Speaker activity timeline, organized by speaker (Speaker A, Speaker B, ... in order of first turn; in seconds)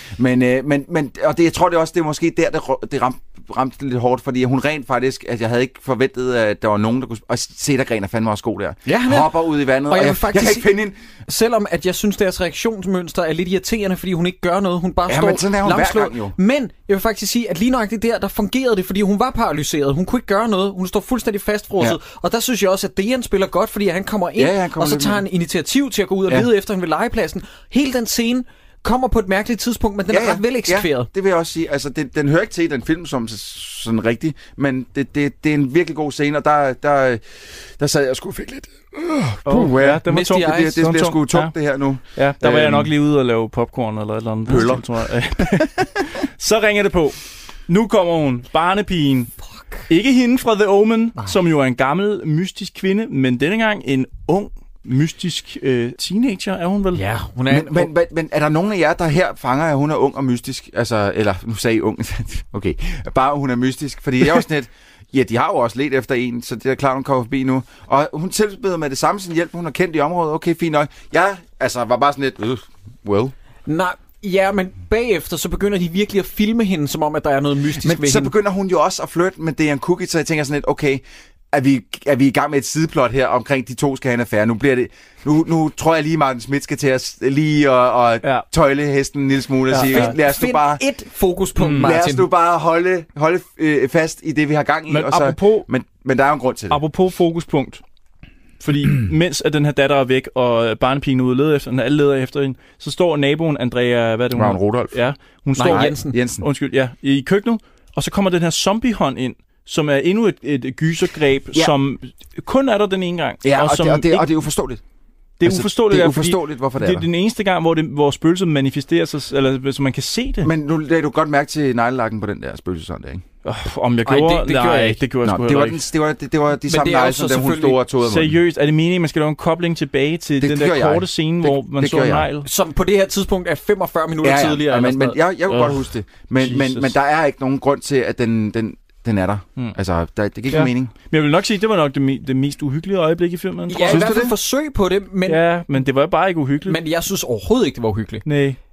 Speaker A: 0.2-11.0, 15.1-16.4, 24.4-25.2, 30.1-42.9, 44.5-44.9, 57.5-73.3, 77.8-90.8, 91.8-96.8, 104.3-105.0, 105.6-106.5, 113.4-114.8, 115.4-117.1, 120.4-123.2, 125.2-128.4, 130.4-132.3, 134.2-140.9, 143.8-144.3
Speaker B: 8.9-10.7, 11.3-31.1, 40.1-40.8, 56.9-57.9, 73.7-78.3, 89.7-92.3, 105.6-106.2, 124.1-125.0, 126.7-127.8, 132.4-135.2, 143.7-145.4, 146.7-148.3
Speaker C: 39.5-41.5, 42.2-47.2, 47.7-49.3, 49.9-57.0, 89.7-90.1, 91.6-91.9, 94.9-95.7, 96.7-97.8, 98.6-114.3, 115.4-120.5, 123.5-125.8, 128.0-132.5, 135.5-135.9, 136.4-136.9, 140.5-144.2, 145.3-146.8, 148.3-148.6